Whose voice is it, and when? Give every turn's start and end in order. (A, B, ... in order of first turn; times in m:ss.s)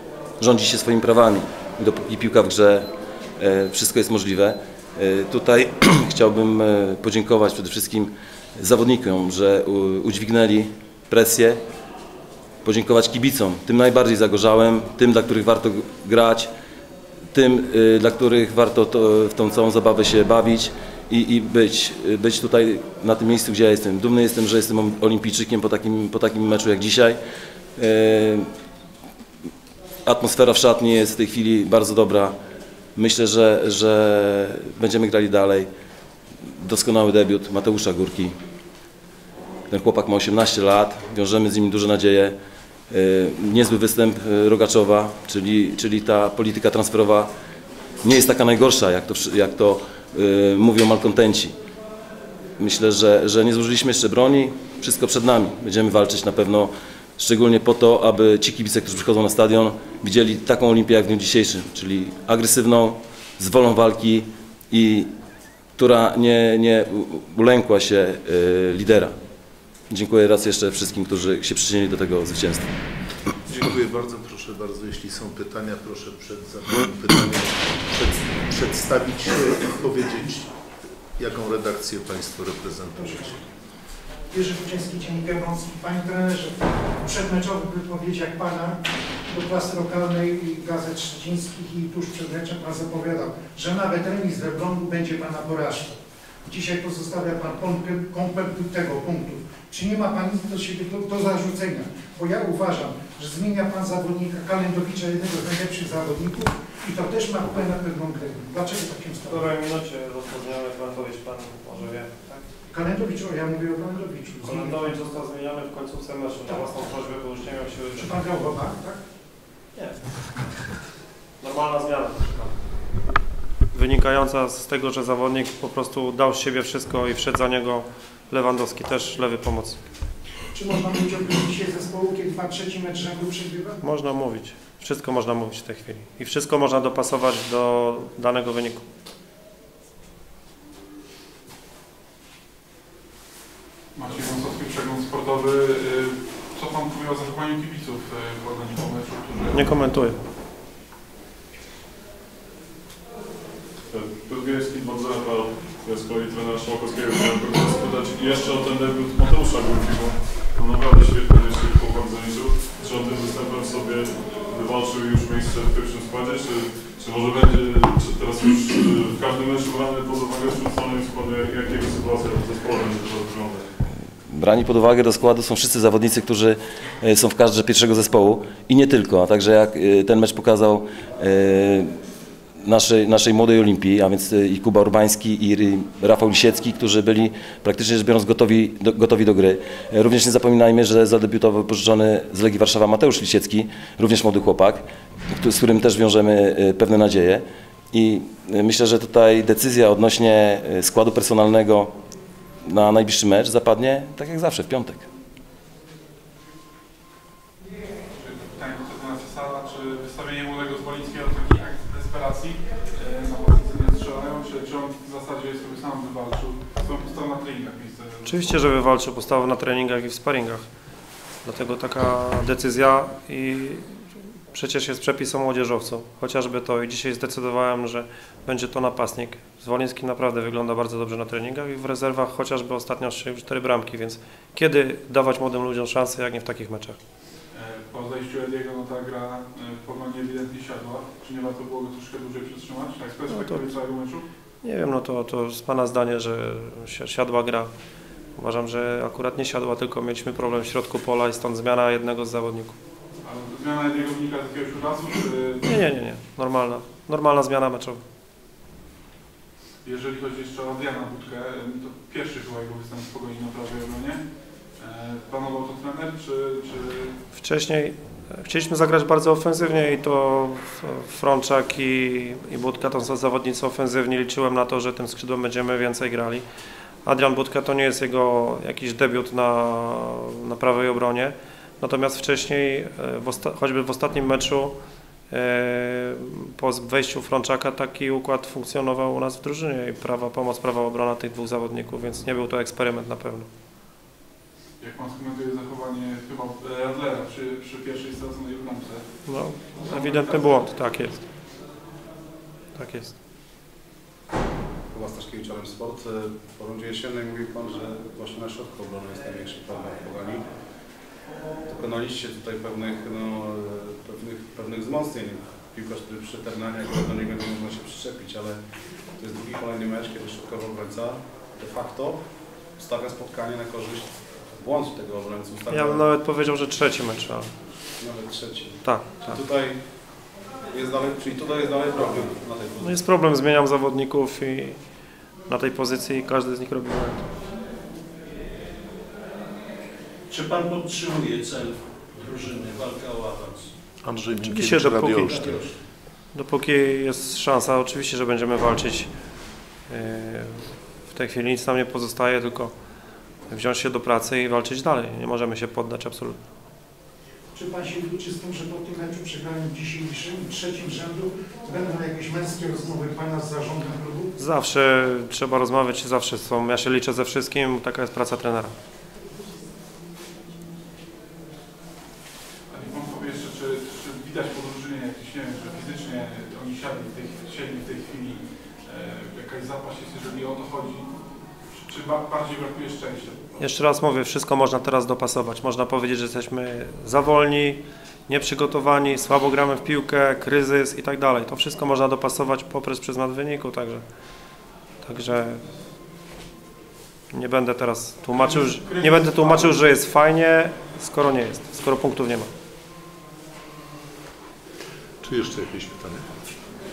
0:00.4-0:11.6 A
0:12.6-0:16.5 A
0:17.3-0:27.2 A
0:27.8-0:28.5 A
0:30.0-0:32.4 A
0:33.0-0:35.7 A
0:36.6-0:38.3 A
0:39.7-0:42.4 A
0:42.9-0:47.3 A
0:48.0-0:51.5 A
0:52.6-1:05.1 A
1:05.8-1:09.1 A
1:09.9-1:12.7 A
1:13.5-1:20.5 B
1:21.2-1:23.4 B
1:23.0-1:23.4 C
1:24.3-1:49.5 C
1:49.2-1:52.5 D
1:52.7-1:54.9 C
1:54.4-1:58.2 D
1:58.0-1:59.0 C
1:59.8-2:00.0 D
2:01.4-2:02.6 D
2:03.7-2:09.8 D
2:10.5-2:13.8 C
2:13.8-2:18.9 D
2:24.0-2:29.8 E
2:29.5-2:30.2 D
2:33.9-2:53.7 F
2:54.3-3:01.9 A
3:02.6-3:21.9 A
3:22.6-3:25.0 A
3:28.2-3:38.6 E
3:38.2-3:40.7 D
3:41.4-3:57.0 D
3:57.5-4:04.2 E
4:03.3-4:03.7 D
4:04.6-4:07.7 D
4:08.4-4:12.8 D
4:13.2-4:15.8 E
4:15.6-4:18.0 D
4:19.8-4:24.2 E
4:24.8-4:27.2 E
4:27.3-4:36.4 D
4:37.0-4:44.8 D
4:45.3-4:53.5 D
4:54.8-4:59.1 E
4:59.2-5:01.3 D
4:59.7-5:00.7 E
5:02.8-5:03.2 D
5:04.9-5:10.5 G
5:11.7-5:18.6 G
5:19.2-5:22.2 G
5:22.8-5:26.0 G
5:25.7-5:27.5 D
5:28.0-5:29.9 G
5:28.8-5:29.4 D
5:30.7-5:33.0 G
5:32.8-5:34.8 D
5:35.5-5:37.3 D
5:40.3-5:43.7 H
5:44.0-5:45.7 B
5:44.4-5:45.4 D
5:45.3-5:45.7 H
5:46.3-5:49.1 D
5:49.9-5:52.7 D
5:53.5-5:56.4 D
5:57.5-6:04.4 C
6:04.4-6:08.8 D
6:12.7-6:21.1 E
6:21.8-6:23.7 E
6:23.6-6:34.0 D
6:35.0-6:35.6 D
6:37.3-6:42.5 D
6:38.3-6:39.8 E
6:45.2-6:46.3 B